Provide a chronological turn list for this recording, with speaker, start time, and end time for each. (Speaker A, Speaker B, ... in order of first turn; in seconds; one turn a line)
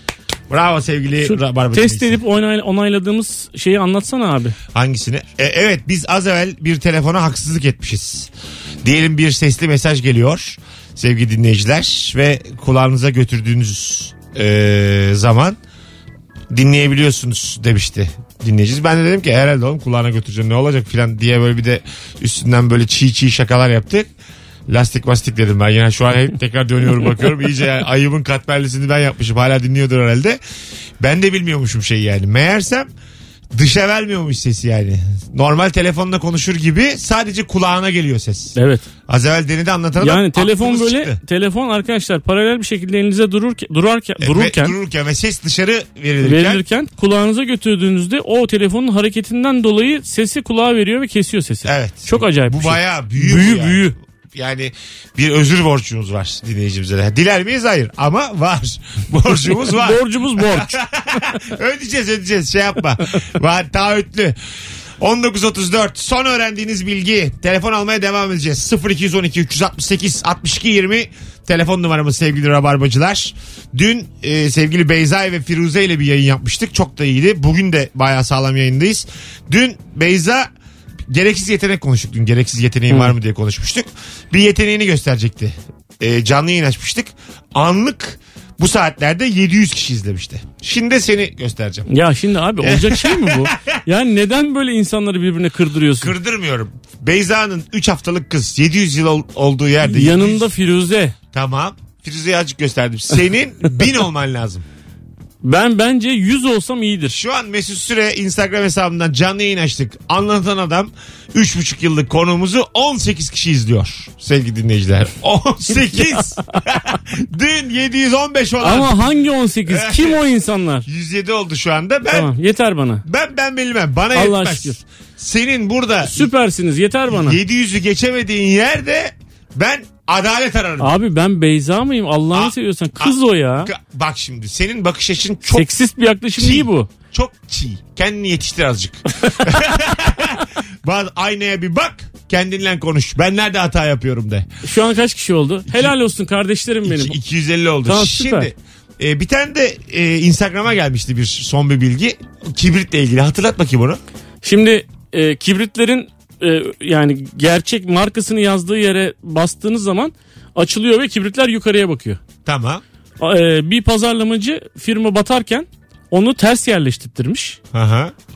Speaker A: 0.5-2.2
Speaker B: 1.2-4.5
Speaker A: 4.7-8.3
Speaker A: 8.8-15.6
Speaker A: 16.5-24.1
Speaker A: 24.7-30.4
Speaker A: 31.0-32.9
Speaker A: 33.5-38.5
Speaker B: 38.5-38.8
Speaker A: 39.1-41.2
Speaker B: 40.0-44.7
Speaker A: 44.2-46.6
Speaker B: 46.2-53.9
Speaker A: 51.6-64.4
Speaker B: 59.5-60.8
Speaker A: 65.0-80.5
Speaker A: 81.1-91.9
Speaker B: 91.9-96.1
Speaker A: 92.6-93.8
Speaker A: 96.0-100.5
Speaker B: 99.8-101.1
Speaker A: 101.3-104.6
Speaker B: 105.4-107.2
Speaker A: 107.1-119.1
Speaker B: 115.9-116.2
Speaker B: 118.6-120.8
Speaker A: 119.7-120.2
Speaker A: 120.8-122.3
Speaker B: 122.1-123.0
Speaker A: 123.0-126.3
Speaker B: 124.1-124.8
Speaker B: 126.0-127.4
Speaker A: 127.1-130.9
Speaker B: 130.8-133.7
Speaker A: 132.3-135.7
Speaker B: 135.5-136.9
Speaker A: 136.4-144.5
Speaker B: 144.6-147.2
Speaker A: 145.7-145.9
Speaker A: 146.8-154.0
Speaker B: 147.8-148.5
Speaker B: 154.4-162.2
Speaker A: 162.4-162.8
Speaker B: 163.2-167.6
Speaker A: 167.7-168.1